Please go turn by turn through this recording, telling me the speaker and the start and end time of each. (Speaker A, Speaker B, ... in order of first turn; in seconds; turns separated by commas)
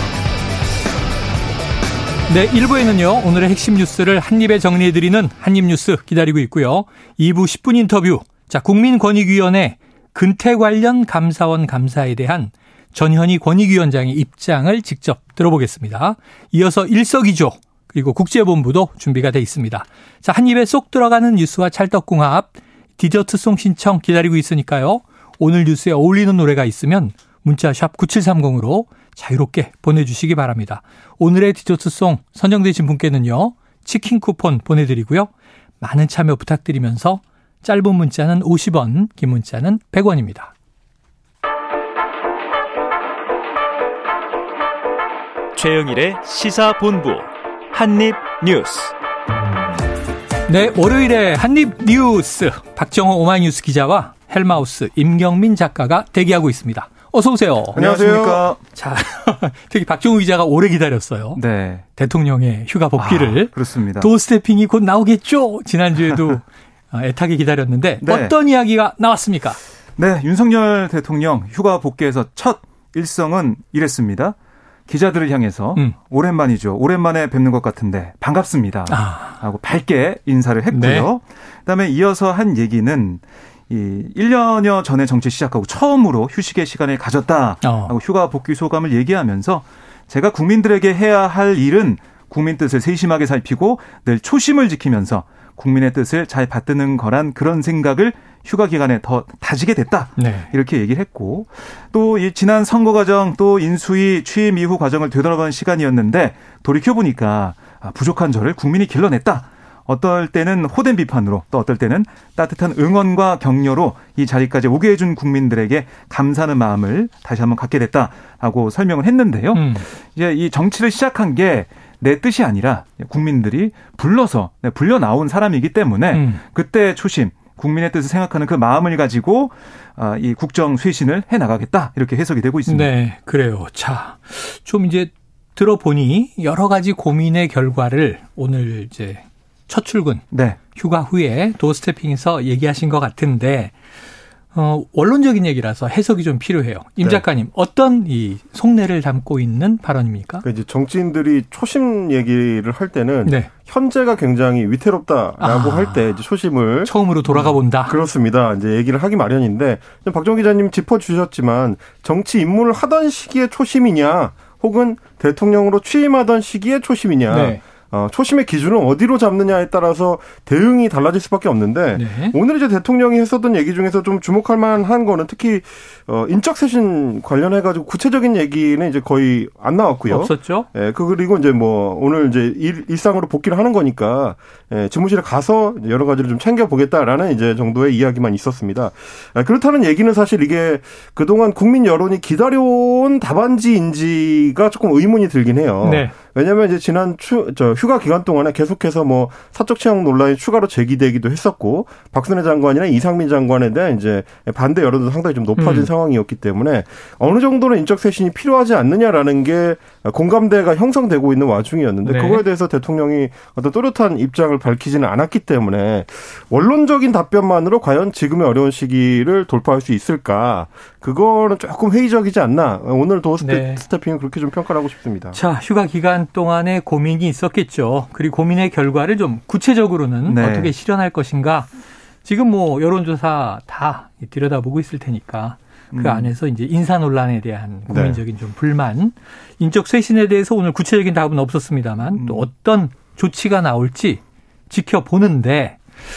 Speaker A: 2.3-40.5, Speaker B: 45.5-48.9, Speaker A: 50.5-57.8, Speaker C: 57.8-58.5, Speaker D: 57.8-58.6, Speaker A: 58.7-61.4, Speaker D: 61.4-61.8, Speaker A: 62.0-69.6, Speaker D: 63.0-64.1, Speaker D: 68.0-68.3, Speaker D: 70.0-74.3, Speaker D: 74.9-132.9, Speaker A: 78.9-79.4, Speaker A: 80.7-81.1, Speaker A: 87.6-87.9, Speaker A: 100.2-100.5, Speaker A: 119.5-119.9, Speaker A: 126.1-126.4, Speaker A: 132.7-140.2, Speaker D: 140.3-140.6, Speaker A: 140.8-143.7, Speaker A: 144.5-150.4, Speaker C: 150.4-225.4, Speaker A: 153.2-153.5, Speaker A: 155.4-156.0, Speaker A: 156.8-157.9, Speaker A: 167.3-167.6, Speaker A: 171.9-172.3, Speaker A: 180.1-180.7, Speaker A: 195.8-196.1, Speaker A: 205.6-205.9, Speaker A: 212.0-212.4, Speaker A: 223.4-223.8, Speaker A: 225.3-231.7, Speaker D: 230.3-230.7, Speaker A: 232.2-245.8, Speaker D: 235.9-236.3, Speaker C: 237.9-238.2, Speaker D: 242.1-242.5